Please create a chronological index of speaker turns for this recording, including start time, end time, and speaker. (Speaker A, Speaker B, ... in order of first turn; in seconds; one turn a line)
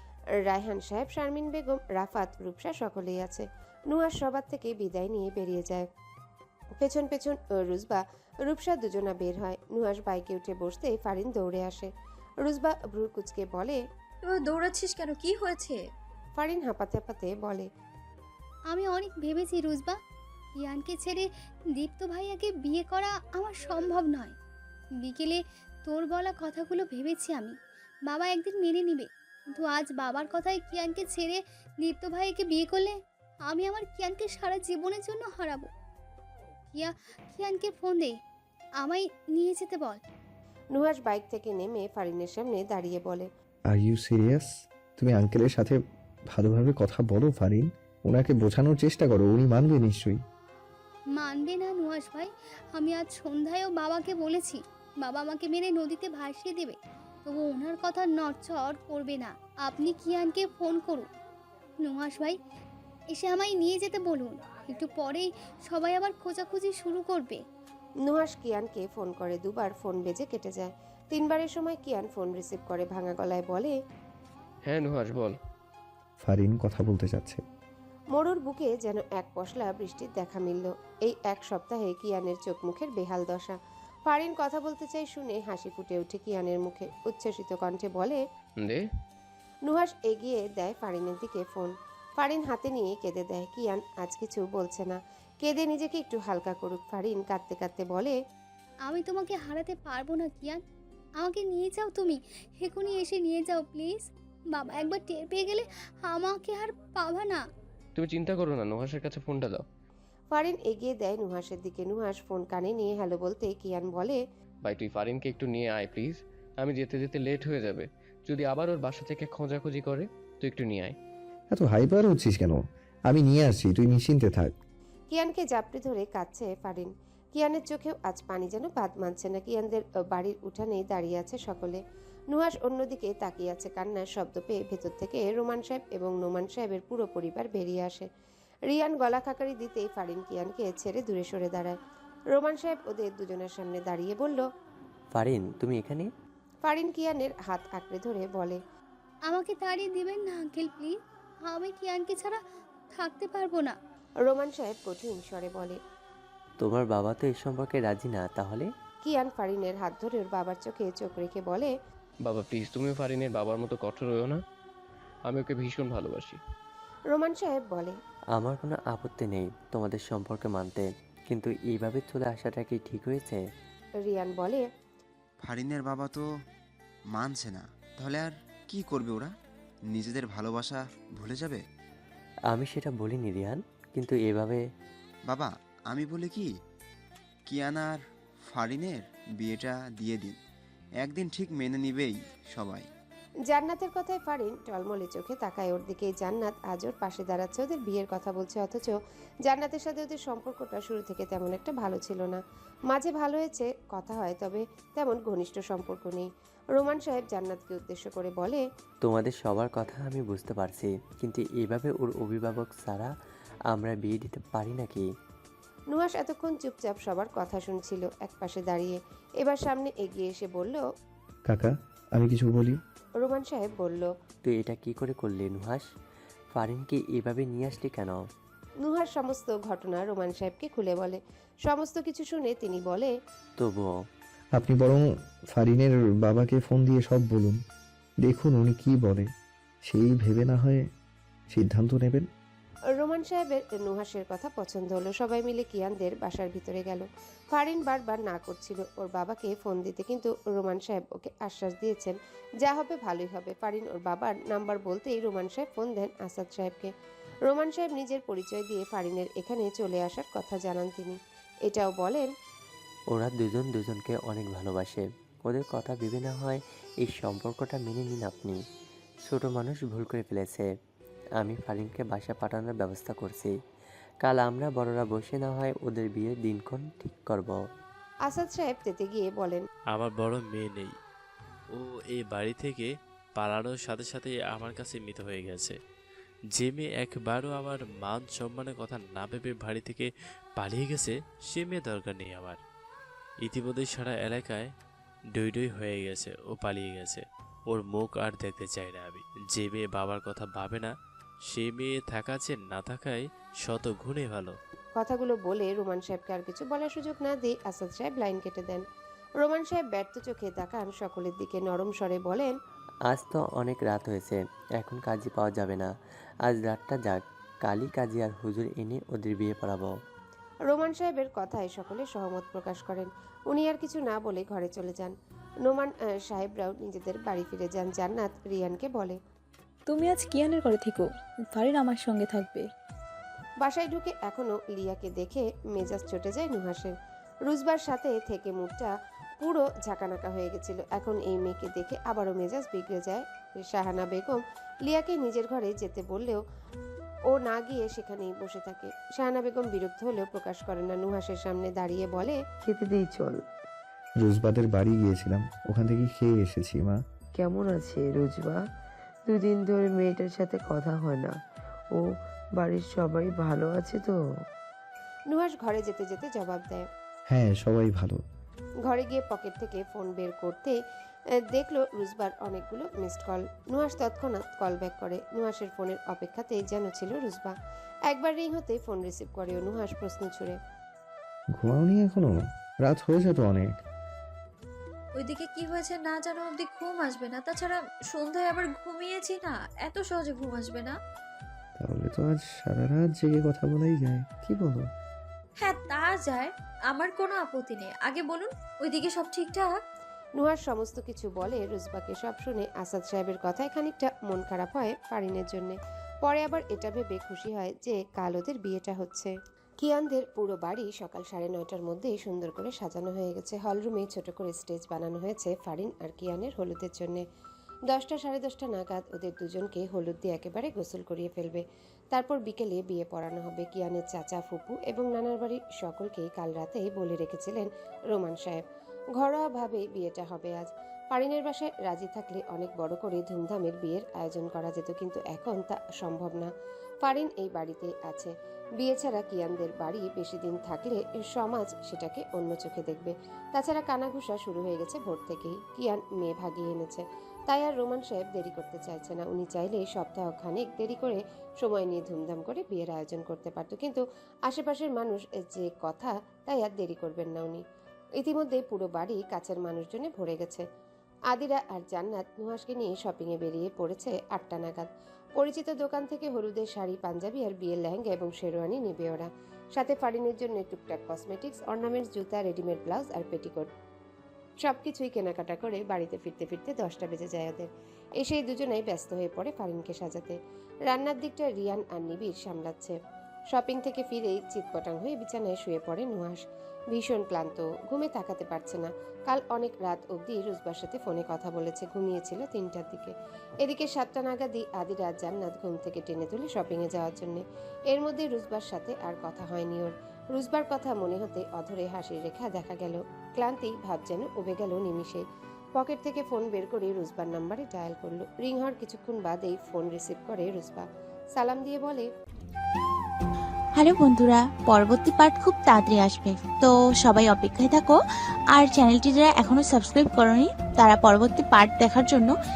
Speaker A: 0.4-5.9
Speaker A: 6.8-13.8
Speaker B: 14.2-15.8
Speaker A: 16.4-17.7
Speaker C: 18.7-20.0
Speaker C: 20.6-24.4
Speaker C: 25.0-27.6
Speaker C: 28.1-35.7
Speaker C: 36.7-38.2
Speaker C: 38.8-40.0
Speaker A: 40.7-43.3
Speaker D: 43.7-45.8
Speaker D: 46.3-50.2
Speaker C: 51.1-61.1
Speaker C: 61.8-62.4
Speaker C: 63.1-67.4
Speaker A: 68.0-73.8
Speaker E: 74.7-75.4
Speaker D: 76.2-77.4
Speaker A: 78.1-88.2
Speaker A: 89.7-98.2
Speaker C: 98.8-100.6
Speaker C: 101.2-107.4
Speaker E: 108.0-109.6
Speaker A: 110.3-114.2
Speaker E: 114.7-121.0
Speaker D: 121.5-124.6
Speaker A: 125.1-138.1
Speaker A: 138.7-141.8
Speaker A: 142.3-144.4
Speaker F: 145.1-146.1
Speaker A: 146.7-148.6
Speaker C: 149.3-152.4
Speaker C: 152.9-153.8
Speaker A: 154.2-155.8
Speaker F: 156.6-158.7
Speaker A: 159.0-161.7
Speaker E: 162.3-164.4
Speaker E: 165.3-166.4
Speaker A: 167.1-168.0
Speaker F: 168.4-173.4
Speaker A: 174.0-174.7
Speaker G: 175.4-176.2
Speaker G: 177.1-179.3
Speaker G: 179.9-181.6
Speaker F: 182.5-184.6
Speaker G: 185.3-186.5
Speaker G: 187.5-188.0
Speaker G: 188.5-190.4
Speaker G: 191.0-192.9
Speaker A: 193.5-208.6
Speaker F: 209.0-213.1
Speaker F: 213.7-215.1
Speaker A: 215.9-220.8
Speaker D: 221.5-222.8
Speaker A: 223.2-224.1
Speaker F: 224.4-225.9
Speaker F: 226.5-228.2
Speaker A: 228.8-233.1
Speaker F: 233.6-234.0
Speaker D: 234.6-237.6
Speaker D: 238.2-239.3
Speaker D: 239.8-240.8
Speaker D: 241.5-242.3
Speaker A: 243.0-256.9
Speaker A: 257.5-262.3
Speaker F: 263.1-268.6
Speaker F: 269.3-270.7
Speaker F: 271.4-273.5
Speaker F: 274.2-277.6
Speaker A: 278.3-279.6
Speaker H: 279.9-280.9
Speaker H: 281.7-285.8
Speaker H: 286.5-292.6
Speaker H: 293.4-294.7
Speaker H: 295.3-300.9
Speaker H: 301.5-304.6
Speaker A: 305.0-308.8
Speaker A: 309.4-312.5
Speaker F: 313.1-315.9
Speaker F: 316.5-319.9
Speaker A: 320.7-329.2
Speaker I: 329.9-332.7
Speaker A: 333.6-336.9
Speaker A: 337.5-346.4
Speaker A: 347.3-352.4
Speaker J: 352.6-353.4
Speaker D: 354.2-357.0
Speaker J: 357.4-358.6
Speaker J: 359.3-361.4
Speaker J: 361.9-364.2
Speaker A: 365.3-366.9
Speaker D: 367.3-368.2
Speaker A: 368.9-370.8
Speaker A: 371.3-377.6
Speaker A: 378.1-380.6
Speaker D: 381.6-383.8
Speaker B: 385.2-391.0
Speaker D: 391.8-394.9
Speaker B: 395.6-399.8
Speaker A: 400.4-417.2
Speaker A: 417.9-428.6
Speaker A: 429.2-436.5
Speaker A: 437.0-457.6
Speaker A: 458.2-460.7
Speaker A: 461.3-473.7
Speaker A: 474.6-483.0
Speaker A: 483.5-505.2
Speaker A: 505.8-512.1
Speaker K: 513.8-518.0
Speaker K: 518.5-522.3